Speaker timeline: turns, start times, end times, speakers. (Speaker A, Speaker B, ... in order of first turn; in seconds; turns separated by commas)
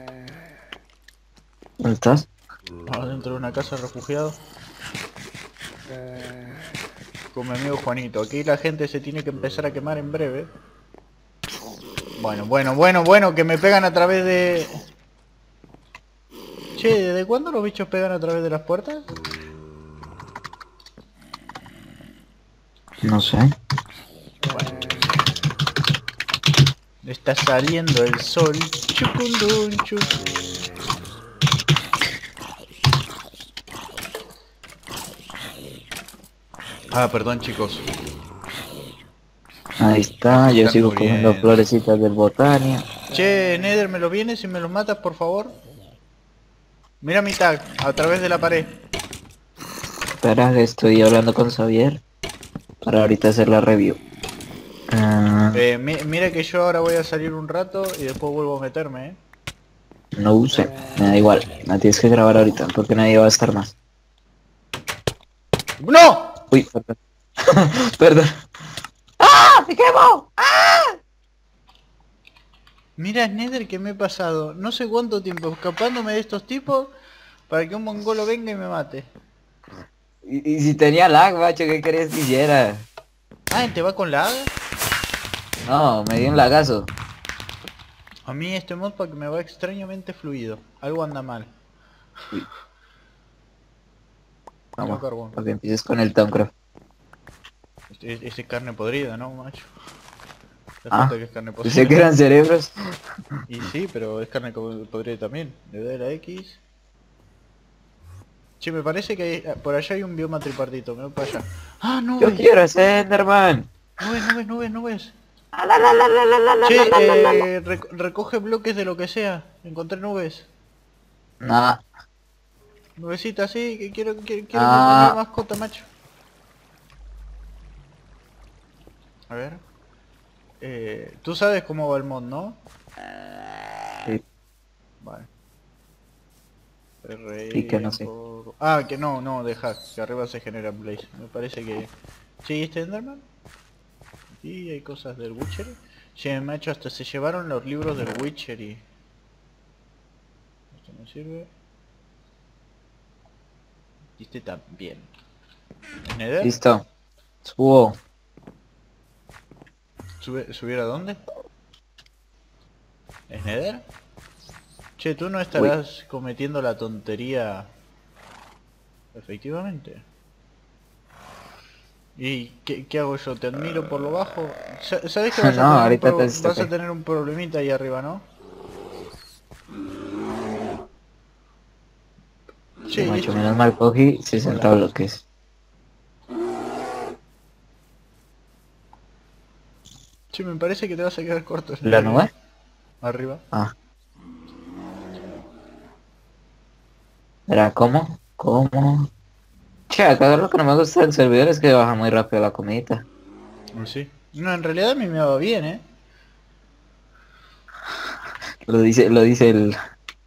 Speaker A: 1.8-2.3, Speaker B: 2.9-4.4, Speaker B: 7.3-10.5, Speaker B: 12.2-14.8, Speaker B: 16.8-19.1, Speaker A: 23.0-23.6, Speaker B: 24.5-25.0, Speaker B: 27.0-30.1, Speaker B: 36.9-37.9, Speaker A: 39.8-42.9, Speaker B: 40.5-41.6, Speaker B: 43.1-45.5, Speaker B: 47.0-48.8, Speaker A: 50.2-52.0, Speaker A: 52.8-54.0, Speaker A: 54.9-55.6, Speaker B: 55.5-59.2, Speaker A: 60.1-63.7, Speaker B: 65.8-66.4, Speaker A: 66.5-68.3, Speaker A: 69.2-71.0, Speaker B: 73.0-76.9, Speaker B: 77.5-79.1, Speaker A: 80.2-82.9, Speaker B: 83.5-84.5, Speaker A: 85.7-86.9, Speaker B: 88.3-91.5, Speaker A: 94.8-96.5, Speaker B: 94.8-95.4, Speaker B: 97.9-99.7, Speaker B: 100.8-102.0, Speaker A: 100.9-102.8, Speaker B: 103.5-106.6, Speaker B: 108.6-112.5, Speaker A: 112.2-113.7, Speaker B: 114.0-115.2, Speaker A: 115.5-117.5, Speaker B: 116.6-120.5, Speaker A: 121.4-121.8, Speaker B: 123.0-125.9, Speaker A: 124.5-125.2, Speaker B: 129.3-129.6, Speaker B: 130.6-132.6, Speaker B: 135.0-135.3, Speaker B: 137.0-143.2, Speaker A: 137.5-138.1, Speaker B: 144.4-148.8, Speaker B: 150.7-151.5, Speaker B: 154.2-155.1, Speaker B: 156.1-156.6, Speaker A: 156.4-156.8, Speaker A: 157.4-158.0, Speaker B: 160.2-161.2, Speaker B: 163.3-163.8, Speaker B: 165.0-167.7, Speaker B: 169.1-170.0, Speaker B: 172.2-178.2, Speaker A: 175.3-176.7, Speaker B: 182.9-183.7, Speaker A: 182.9-185.2, Speaker B: 184.4-184.8, Speaker B: 190.3-192.3, Speaker A: 191.8-192.3, Speaker B: 193.0-193.4, Speaker A: 197.5-199.1, Speaker A: 199.9-203.1, Speaker B: 203.8-205.8, Speaker A: 208.7-209.8